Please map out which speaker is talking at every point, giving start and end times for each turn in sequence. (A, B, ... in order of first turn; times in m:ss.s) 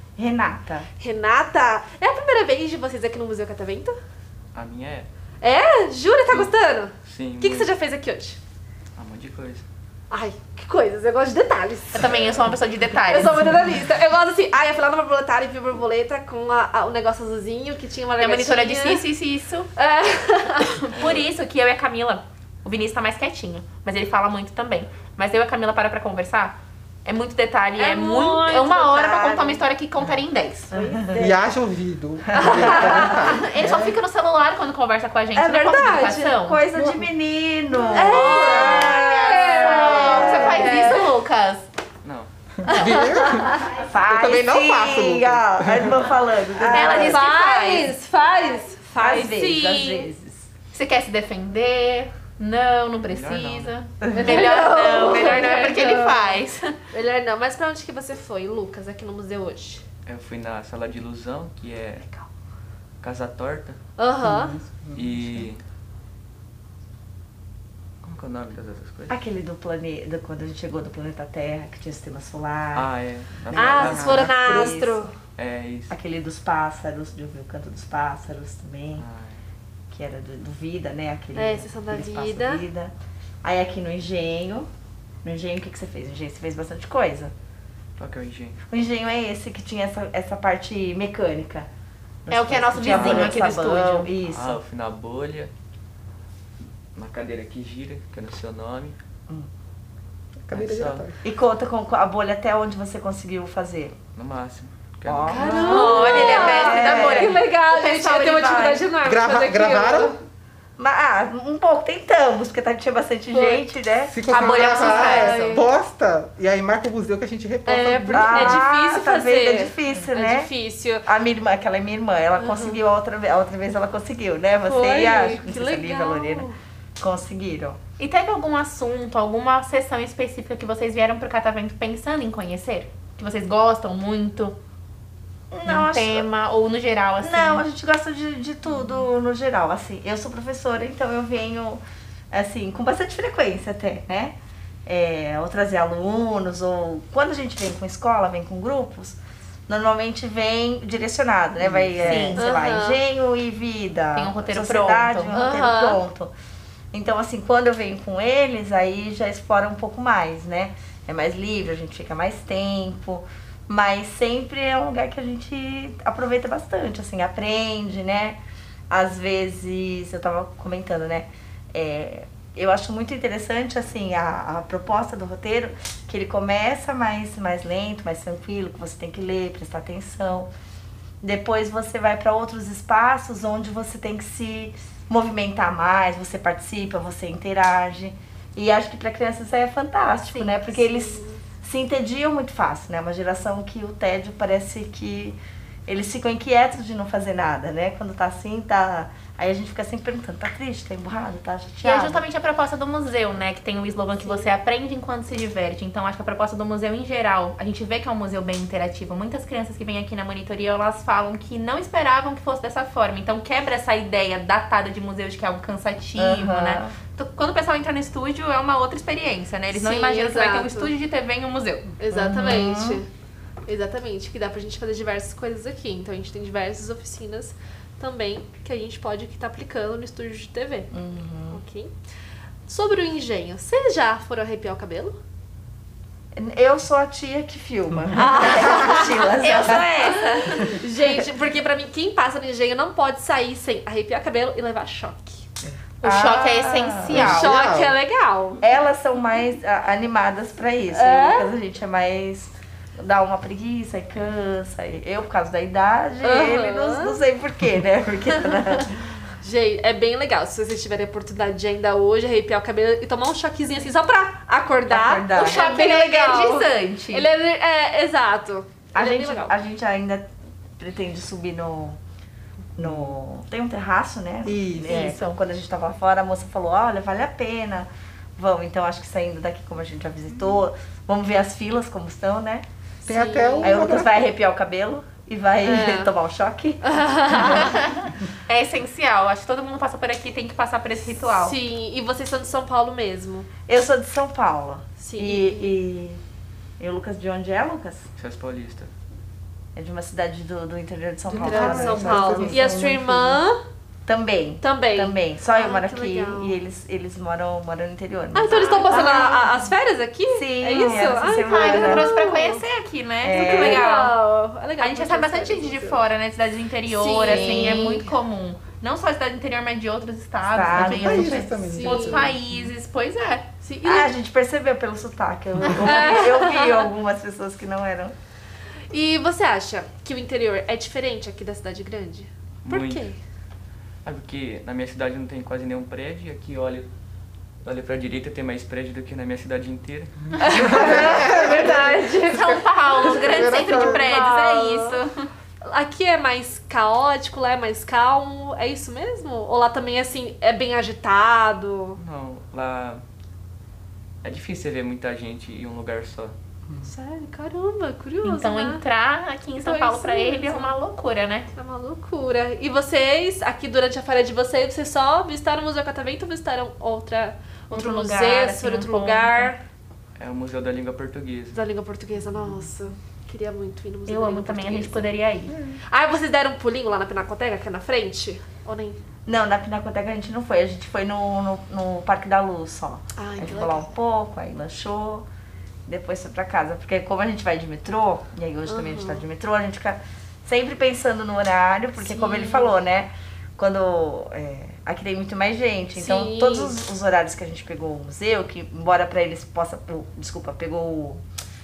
0:00.2-0:00.9 A
0:01.0-0:04.0 B
0:04.5-0:05.1 C
0:05.4-0:08.4 B
0:07.0-0:07.7 C
0:09.0-0:09.6 C
0:10.1-0:12.3 B
0:11.9-0:13.3 D
0:13.1-0:19.0 B
0:18.2-0:19.7 D
0:19.8-0:20.8 B
0:20.6-0:30.7 D
0:27.8-0:29.5 B
0:30.7-0:31.4 B
0:30.7-0:31.2 A
0:31.1-0:34.0 E
0:32.3-0:33.4 A
0:32.3-0:33.8 B
0:32.7-0:36.6 D
0:35.3-0:39.0 A
0:35.6-0:36.2 B
0:36.8-0:37.0 B
0:37.9-0:38.9 E
0:37.9-0:41.1 B
0:38.0-0:41.7 D
0:39.6-0:40.8 A
0:42.0-0:42.3 C
0:42.6-0:47.2 E
0:42.7-0:43.6 B
0:43.8-0:47.2 A
0:46.7-0:47.9 D
0:46.8-0:49.4 B
0:49.0-0:50.5 A
0:49.1-0:50.1 D
0:50.7-0:56.7 D
0:53.1-0:53.8 C
0:54.0-0:54.7 A
0:54.1-0:59.8 B
1:00.0-1:02.0 C
1:03.0-1:03.8 C
1:04.0-1:04.6 B
1:04.2-1:05.4 E
1:04.9-1:05.6 C
1:08.0-1:09.2 C
1:09.1-1:12.9 A
1:12.7-1:14.7 C
1:13.5-1:15.1 A
1:13.5-1:15.1 B
1:15.4-1:15.9 C
1:15.9-1:19.0 A
1:19.0-1:19.4 C
1:19.9-1:24.7 A
1:21.3-1:22.6 B
1:25.2-1:27.3 A
1:28.0-1:28.6 C
1:28.7-1:31.7 A
1:32.2-1:34.6 A
1:32.3-1:34.1 D
1:32.8-1:33.4 C
1:34.2-1:35.5 C
1:36.9-1:39.0 C
1:40.4-1:41.2 E
1:40.5-1:41.1 C
1:41.2-1:44.0 A
1:44.1-1:46.3 C
1:45.0-1:47.4 A
1:45.3-1:50.2 B
1:45.6-1:48.6 D
1:48.2-1:48.9 A
1:49.0-1:50.2 E
1:50.8-1:55.3 A
1:53.3-1:53.6 B
1:54.0-1:58.6 E
1:54.3-1:55.6 D
1:54.9-1:55.6 B
1:57.6-2:01.0 B
1:58.1-2:00.5 A
2:01.0-2:06.5 A
2:02.4-2:02.8 B
2:04.6-2:06.6 B
2:07.0-2:07.8 A
2:08.0-2:14.6 D
2:15.5-2:16.3 A
2:15.6-2:17.6 D
2:17.2-2:36.3 A
2:32.0-2:32.5 D
2:32.4-2:33.0 B
2:34.1-2:35.4 D
2:35.3-2:36.0 B
2:36.9-2:48.4 A
2:48.9-3:00.5 A
3:01.2-3:22.2 A
3:10.3-3:11.4 B
3:21.8-3:41.9 D
3:24.2-3:24.4 B
3:36.2-3:36.9 A
3:39.7-3:40.9 B
3:42.0-3:43.1 B
3:42.1-3:43.0 A
3:43.6-3:50.9 B
3:50.9-3:51.6 A
3:51.5-3:51.9 B
3:52.7-3:55.2 B
3:56.3-4:00.0 A
3:58.2-4:00.8 D
3:58.4-4:05.4 B
4:06.0-4:07.5 D
4:06.0-4:07.3 A
4:07.0-4:08.0 E
4:07.2-4:08.6 B
4:08.6-4:18.9 A
4:10.9-4:11.6 B
4:16.2-4:17.2 B
4:19.4-4:29.5 B
4:24.9-4:25.7 A
4:25.3-4:27.3 D
4:28.9-4:30.3 A
4:30.8-4:32.0 A
4:32.8-4:42.6 A
4:32.8-4:33.1 E
4:34.4-4:35.1 E
4:34.9-4:35.4 D
4:43.0-4:44.0 B
4:43.0-4:44.2 E
4:43.6-4:47.6 A
4:45.6-4:46.1 B
4:46.8-4:47.7 B
4:47.6-4:51.6 D
4:51.3-4:53.5 B
4:53.7-4:56.2 A
4:55.0-4:55.8 B
4:56.8-4:58.0 A
4:58.2-4:58.9 C
4:59.7-5:02.8 A
5:01.3-5:03.4 E
5:01.3-5:03.6 B
5:04.0-5:09.7 A
5:04.6-5:06.6 B
5:08.3-5:12.6 B
5:08.5-5:09.6 D
5:10.3-5:12.1 A
5:10.8-5:14.2 D
5:13.2-5:13.9 A
5:13.3-5:16.0 B
5:14.8-5:23.5 D
5:16.9-5:18.1 B
5:17.2-5:18.0 A
5:20.5-5:21.6 A
5:20.7-5:22.4 E
5:21.6-5:22.3 B
5:23.6-5:24.1 B
5:23.8-5:28.1 A
5:25.6-5:26.8 B
5:28.9-5:33.2 B
5:32.6-5:33.1 C
5:34.0-5:36.9 C
5:37.6-5:40.8 C
5:40.4-5:45.0 B
5:40.5-5:44.2 E
5:41.4-5:41.7 D
5:42.3-5:45.3 D
5:45.6-5:52.0 B
5:52.0-5:53.0 C
5:54.2-5:56.3 C
5:56.8-5:58.8 B
5:58.2-6:01.5 D
5:59.6-6:00.7 B
6:01.5-6:09.6 B
6:07.7-6:09.5 D
6:10.2-6:11.6 C
6:11.5-6:15.1 B
6:14.1-6:15.5 D
6:15.5-6:15.8 E
6:15.8-6:19.0 B
6:19.2-6:25.2 A
6:23.2-6:23.8 B
6:25.9-6:41.2 A
6:28.7-6:29.2 B
6:32.0-6:32.7 B
6:36.0-6:36.7 B